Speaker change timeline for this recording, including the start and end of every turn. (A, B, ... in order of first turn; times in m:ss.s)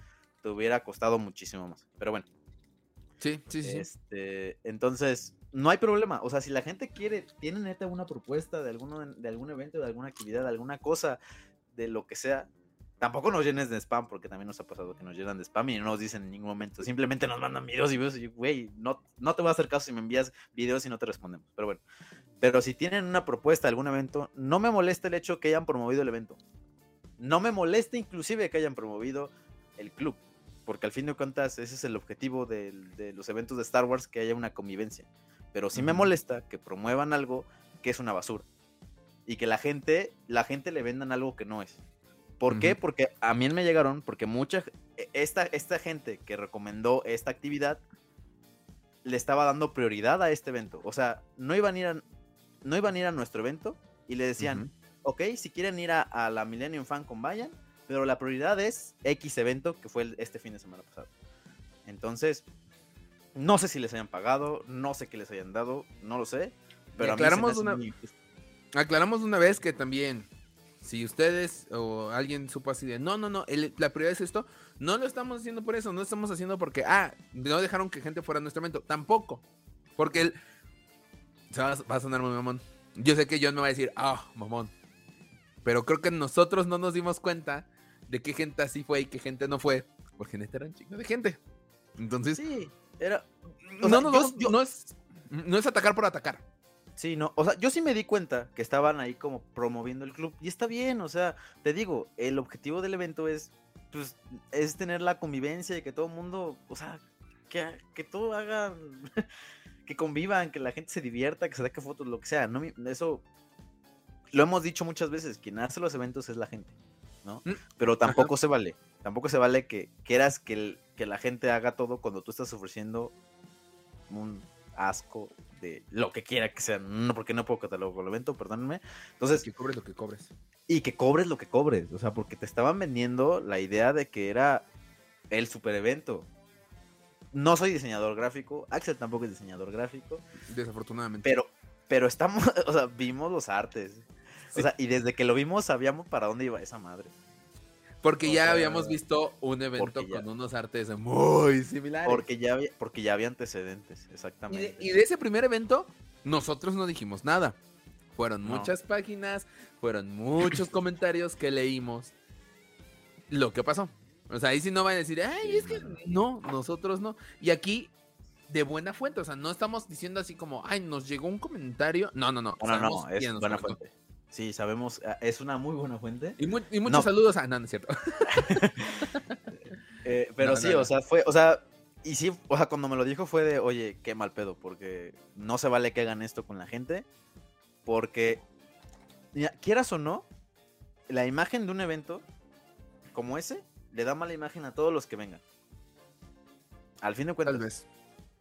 0:00.4-0:02.3 A
0:03.2-0:03.9 B
0:03.6-0:11.2 A
0:11.7-0:21.8 A
0:22.4-0:26.4 A
0:27.2-0:38.5 A
0:35.8-0:36.1 B
0:39.3-0:41.8 A
0:42.4-0:47.8 A
0:42.5-0:42.8 B
0:49.0-0:52.0 A
0:52.6-1:01.1 A
0:54.4-0:54.7 B
1:01.9-1:02.5 A
1:03.4-1:08.1 A
1:07.0-1:07.8 B
1:08.8-1:10.3 B
1:10.8-1:19.4 B
1:20.0-1:20.4 B
1:21.5-1:24.7 B
1:25.6-1:31.4 B
1:32.0-1:32.4 B
1:32.4-1:33.3 A
1:33.7-1:36.4 B
1:33.8-1:34.6 A
1:37.0-1:49.2 A
1:49.9-1:53.2 A
1:54.3-2:03.1 A
1:57.4-1:58.3 B
2:04.1-2:09.5 A
2:09.4-2:10.3 B
2:10.7-2:14.6 A
2:15.3-2:16.3 A
2:17.3-2:20.2 A
2:20.4-2:21.3 B
2:21.2-2:27.1 A
2:28.0-2:32.2 B
2:28.2-2:29.0 A
2:29.8-2:30.2 A
2:32.0-2:34.9 A
2:34.5-2:37.6 B
2:38.1-2:42.1 B
2:38.4-2:38.7 A
2:43.3-2:47.9 B
2:45.4-2:46.0 A
2:48.5-2:53.8 B
2:52.6-2:57.1 A
2:56.4-2:59.4 B
2:58.4-2:59.1 A
3:00.0-3:07.1 A
3:00.4-3:00.9 B
3:07.8-3:08.4 A
3:09.3-3:10.3 A
3:11.1-3:12.2 A
3:13.1-3:15.4 A
3:17.0-3:17.7 A
3:17.5-3:17.8 B